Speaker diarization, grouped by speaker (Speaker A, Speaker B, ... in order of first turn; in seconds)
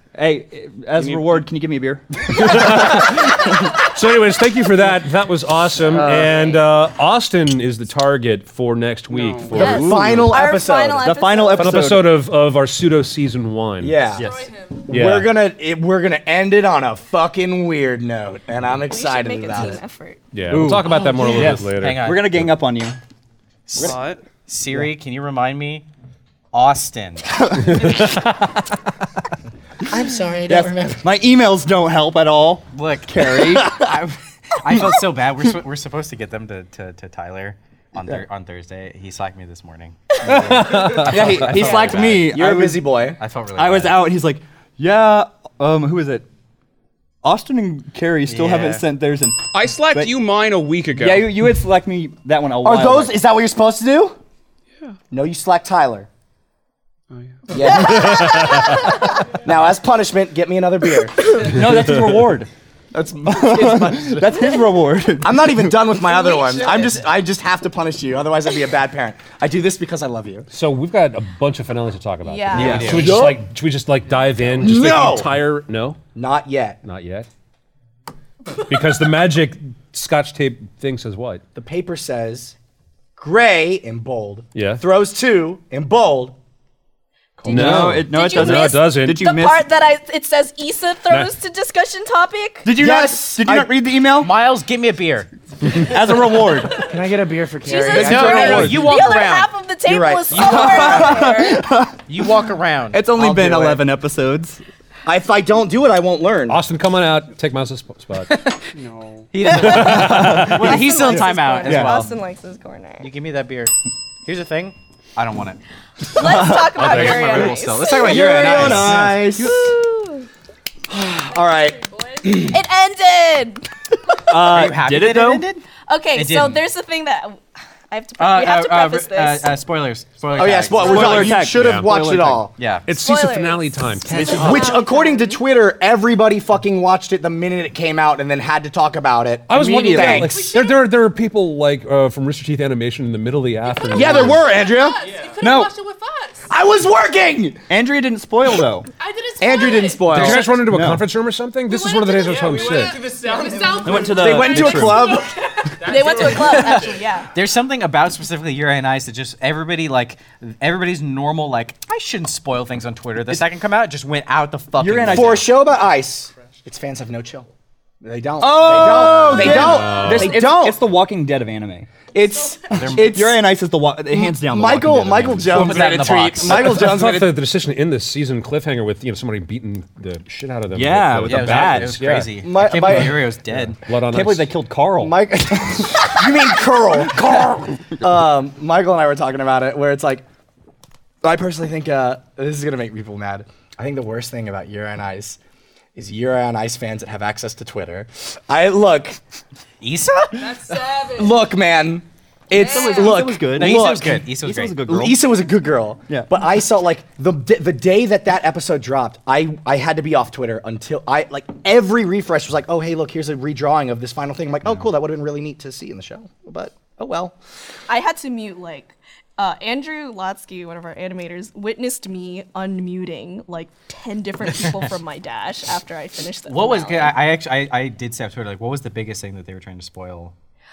Speaker A: 0.1-3.7, 11.0-12.1, 14.1-14.5, 20.5-23.0, 27.3-28.1, 30.5-33.9, 40.2-42.8, 43.6-46.3, 47.2-50.3, 50.9-53.2, 61.3-62.5, 63.2-65.8, 72.5-73.3, 87.5-89.7, 92.6-94.3, 95.7-96.9, 97.9-99.0, 100.3-102.0, 102.9-104.6, 109.8-112.1, 116.1-117.4, 118.0-119.6, 124.3-125.5, 130.8-131.9, 134.1-134.8, 145.4-145.7, 147.7-148.9, 150.2-151.1, 153.8-155.1, 164.8-165.5, 168.4-171.9, 172.8-176.5, 180.7-182.1, 183.9-186.3, 187.2-187.5, 202.5-205.2
Speaker B: 1.0-1.4, 6.0-6.2, 9.1-9.7, 23.8-24.2, 49.5-51.5, 57.1-57.6, 108.7-109.2, 155.9-156.7
Speaker C: 2.3-10.3, 11.5-14.0, 14.9-15.3, 20.3-22.6, 27.6-28.6, 40.3-41.4, 57.7-59.0, 70.5-76.0, 76.8-77.3, 78.5-81.4, 84.5-84.8, 87.5-89.3, 106.5-108.3, 109.5-110.8, 116.8-117.5, 118.5-119.5, 131.4-134.7, 139.5-144.5, 150.1-153.1, 169.0-170.4, 176.5-182.3, 183.5-184.6
Speaker D: 6.0-6.3, 21.6-22.3, 23.7-25.9, 26.5-27.3, 32.7-42.4, 43.2-44.1, 48.2-48.9, 66.5-67.1, 72.6-73.1, 94.2-95.3, 97.9-99.5, 100.6-101.1, 102.1-103.0, 108.3-108.7, 109.3-112.2, 113.0-113.7, 114.2-115.6, 116.8-119.2, 124.3-126.6, 128.2-132.9, 156.2-165.5, 172.7-173.2, 175.5-176.8, 181.3-183.8, 199.8-200.6, 203.6-204.9, 226.5-230.3
Speaker E: 9.5-11.9, 18.9-20.2, 57.6-58.9, 72.2-73.0, 87.4-92.7, 97.6-101.6, 109.4-113.1, 116.1-120.3, 122.4-123.7, 125.9-129.6, 132.9-135.4, 155.8-157.3, 217.9-227.2
Speaker F: 9.5-11.3, 13.8-19.8, 29.9-31.1, 41.5-43.2, 52.6-54.2, 55.1-56.1, 57.5-58.8, 59.3-61.6, 62.9-64.7, 65.2-70.5, 72.8-73.4, 74.6-75.3, 76.2-76.8, 81.6-82.5, 83.2-86.3, 92.7-93.8, 96.7-98.8, 99.8-101.4, 103.1-103.8, 105.0-106.6, 120.9-122.6, 130.3-132.5, 134.4-140.6, 143.9-145.1, 146.5-147.6, 149.4-150.6, 153.7-155.5, 165.0-167.5, 168.0-170.8, 172.1-173.4, 174.1-177.4, 182.4-183.3, 185.0-190.2, 191.2-195.4, 195.9-199.2, 201.0-204.3, 204.9-217.3
Speaker G: 14.1-14.9, 121.2-122.5, 139.9-140.9, 143.7-146.5, 149.0-150.6, 151.7-156.9, 172.2-172.6, 200.3-201.5, 202.5-203.3